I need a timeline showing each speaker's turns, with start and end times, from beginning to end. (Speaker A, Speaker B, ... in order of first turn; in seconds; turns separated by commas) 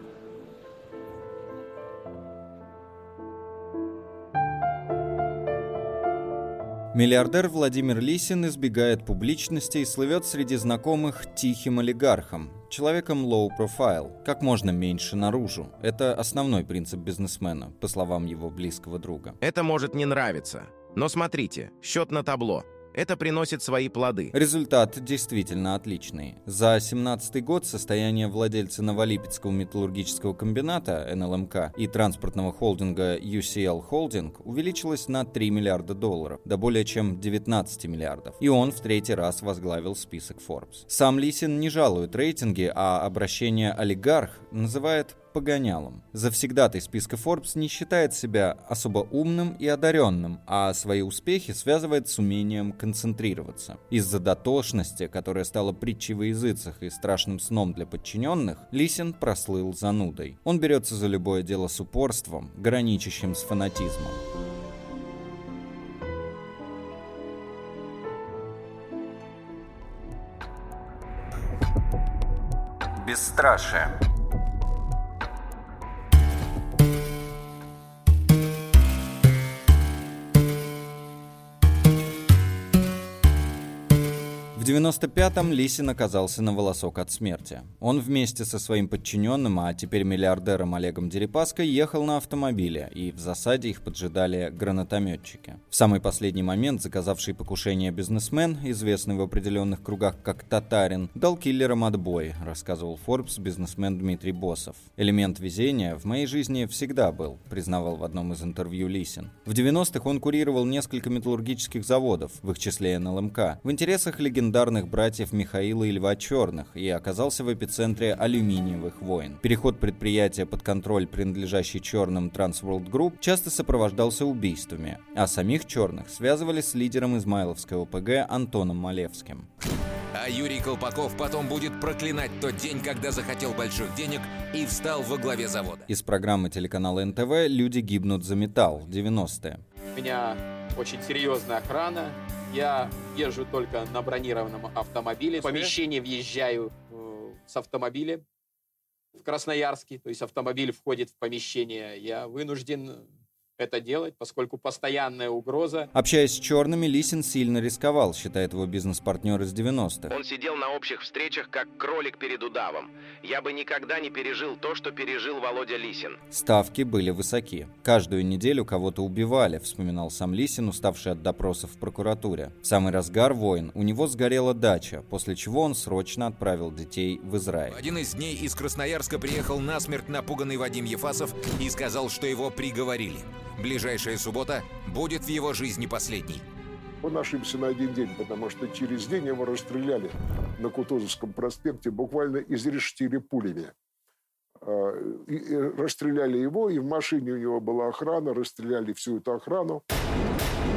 Speaker A: 6.9-19.4, Speaker B: 19.4-24.3, Speaker A: 24.3-64.2, Speaker A: 73.0-73.9, Speaker A: 84.5-129.5, Speaker C: 130.1-135.8, Speaker A: 135.9-139.6, Speaker D: 139.9-148.2, Speaker D: 149.2-155.9, Speaker A: 155.9-160.1, Speaker B: 160.1-166.2, Speaker A: 166.3-177.8, Speaker C: 177.7-186.4, Speaker E: 187.0-193.7, Speaker E: 194.6-199.8